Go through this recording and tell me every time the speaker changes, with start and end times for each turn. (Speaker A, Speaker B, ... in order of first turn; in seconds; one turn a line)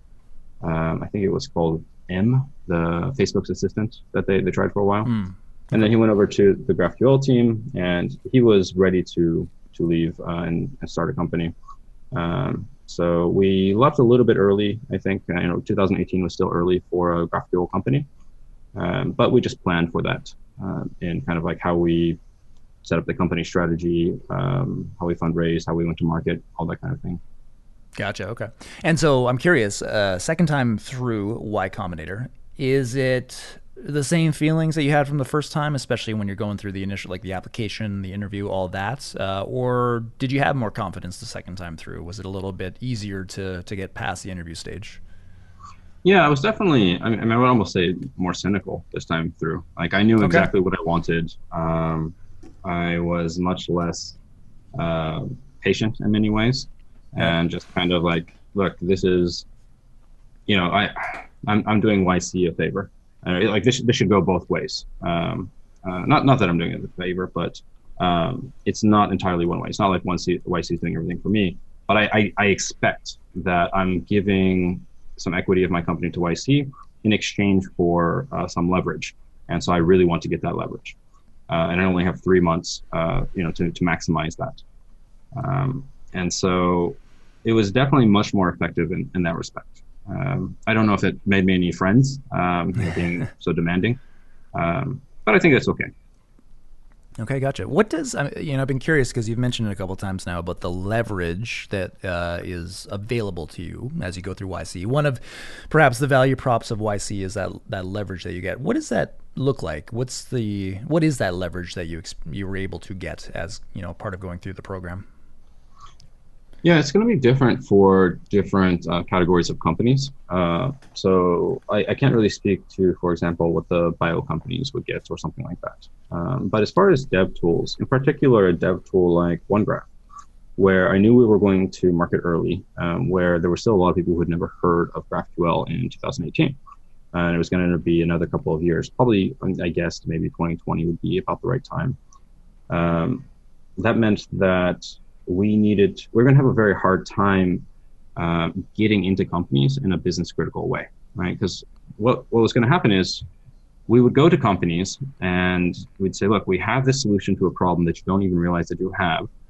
Speaker A: 0.6-5.2
Speaker B: 5.1-5.3
Speaker A: 5.7-11.5
Speaker A: 12.1-18.1
Speaker A: 18.8-22.2
Speaker A: 22.8-27.2
Speaker B: 28.0-45.0
Speaker A: 46.0-54.2
Speaker A: 54.8-59.5
Speaker A: 60.5-81.0
Speaker A: 81.5-84.6
Speaker A: 85.3-94.0
Speaker A: 94.5-95.9
Speaker B: 97.2-115.0
Speaker A: 116.6-129.9
Speaker A: 130.6-136.6
Speaker A: 137.1-142.0
Speaker A: 142.7-143.3
Speaker A: 143.8-153.2
Speaker A: 153.9-159.3